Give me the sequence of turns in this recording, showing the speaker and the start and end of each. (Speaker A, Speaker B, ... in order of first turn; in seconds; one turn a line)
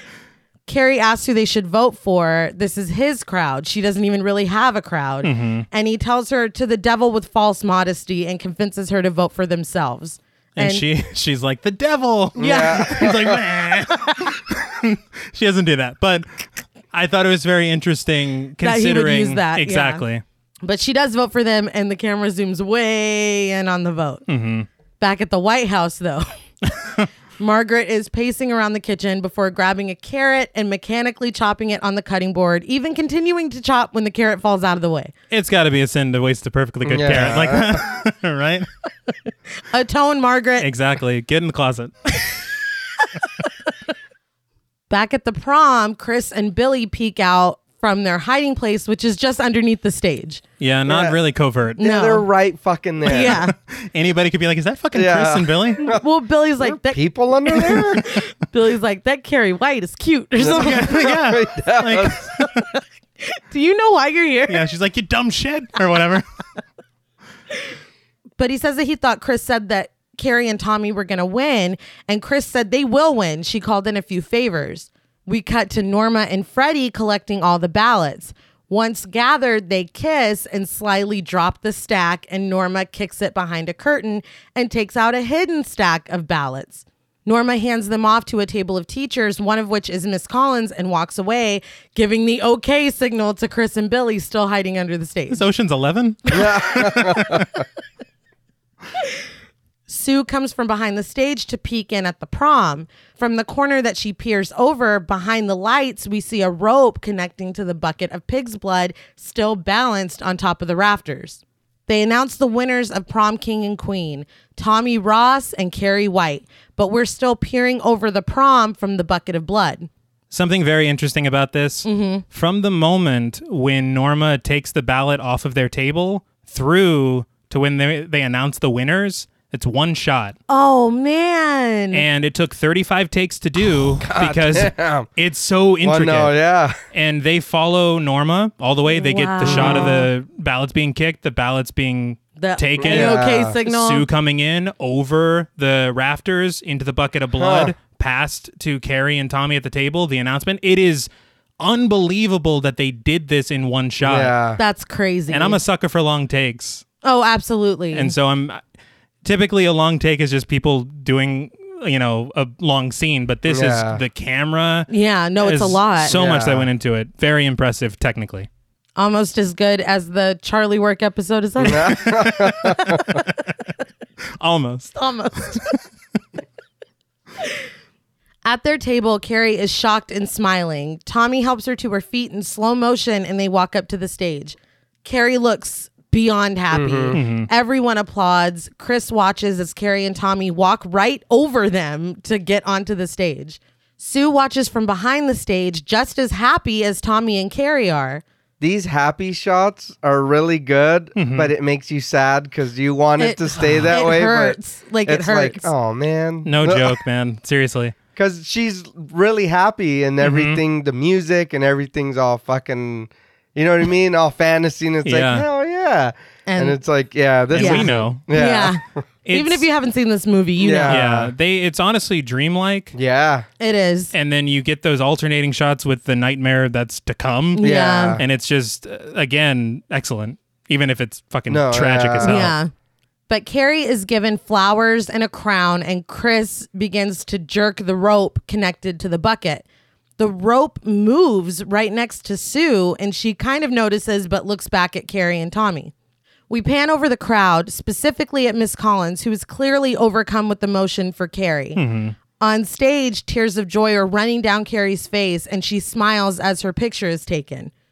Speaker A: 0.7-10.8
Speaker B: 5.2-5.7
Speaker B: 10.6-20.2
Speaker C: 12.4-13.4
Speaker A: 12.4-13.1
Speaker A: 18.6-20.0
Speaker A: 20.6-24.2
Speaker B: 24.3-24.7
Speaker A: 25.0-26.3
Speaker B: 26.8-27.1
Speaker A: 27.4-35.1
Speaker B: 35.3-38.7
Speaker C: 36.8-37.8
Speaker A: 39.7-40.7
Speaker B: 40.6-41.9
Speaker A: 43.2-43.5
Speaker A: 44.9-50.4
Speaker B: 50.6-51.8
Speaker C: 50.9-51.1
Speaker A: 51.8-52.2
Speaker C: 51.8-53.4
Speaker A: 53.0-53.5
Speaker B: 53.2-55.9
Speaker C: 54.9-56.0
Speaker A: 55.8-61.1
Speaker C: 56.6-58.1
Speaker C: 60.4-62.2
Speaker B: 60.5-62.4
Speaker A: 62.4-64.7
Speaker B: 64.5-66.2
Speaker A: 68.4-95.4
Speaker B: 95.3-97.5
Speaker A: 96.3-96.9
Speaker C: 96.3-97.5
Speaker A: 99.9-119.9
Speaker B: 120.3-130.3
Speaker A: 121.8-122.2
Speaker A: 130.5-132.0
Speaker B: 131.9-136.3
Speaker C: 134.0-135.1
Speaker C: 135.8-136.8
Speaker B: 136.9-151.1
Speaker A: 138.8-140.1
Speaker C: 139.4-140.0
Speaker A: 142.4-144.1
Speaker C: 142.8-143.6
Speaker C: 147.4-147.7
Speaker B: 151.6-154.3
Speaker C: 154.0-154.6
Speaker A: 154.6-155.6
Speaker B: 155.3-156.8
Speaker A: 157.0-158.1
Speaker B: 157.9-158.6
Speaker B: 159.2-164.9
Speaker C: 163.5-164.0
Speaker A: 164.9-166.1
Speaker B: 165.4-168.5
Speaker C: 166.1-166.7
Speaker A: 169.0-173.4
Speaker C: 171.6-173.0
Speaker B: 172.0-172.7
Speaker B: 174.4-175.8
Speaker A: 174.9-175.7
Speaker A: 178.4-198.2
Speaker C: 186.7-187.2
Speaker B: 187.1-187.5
Speaker C: 198.6-207.0
Speaker B: 201.2-201.5
Speaker A: 203.2-205.7
Speaker B: 203.6-203.9
Speaker B: 206.4-207.9
Speaker C: 208.2-218.8
Speaker B: 210.2-210.6
Speaker B: 215.0-215.4
Speaker A: 216.5-216.8
Speaker B: 217.5-218.2
Speaker A: 217.6-221.0
Speaker B: 219.2-219.7
Speaker C: 220.6-221.3
Speaker B: 220.9-222.9
Speaker C: 222.9-223.4
Speaker A: 223.6-224.1
Speaker B: 224.1-232.5
Speaker A: 227.5-228.2
Speaker C: 227.6-228.2
Speaker C: 231.5-232.5
Speaker A: 232.2-232.7
Speaker A: 233.3-239.6
Speaker A: 240.2-245.9
Speaker A: 246.5-251.8
Speaker B: 251.8-252.2
Speaker A: 252.4-257.7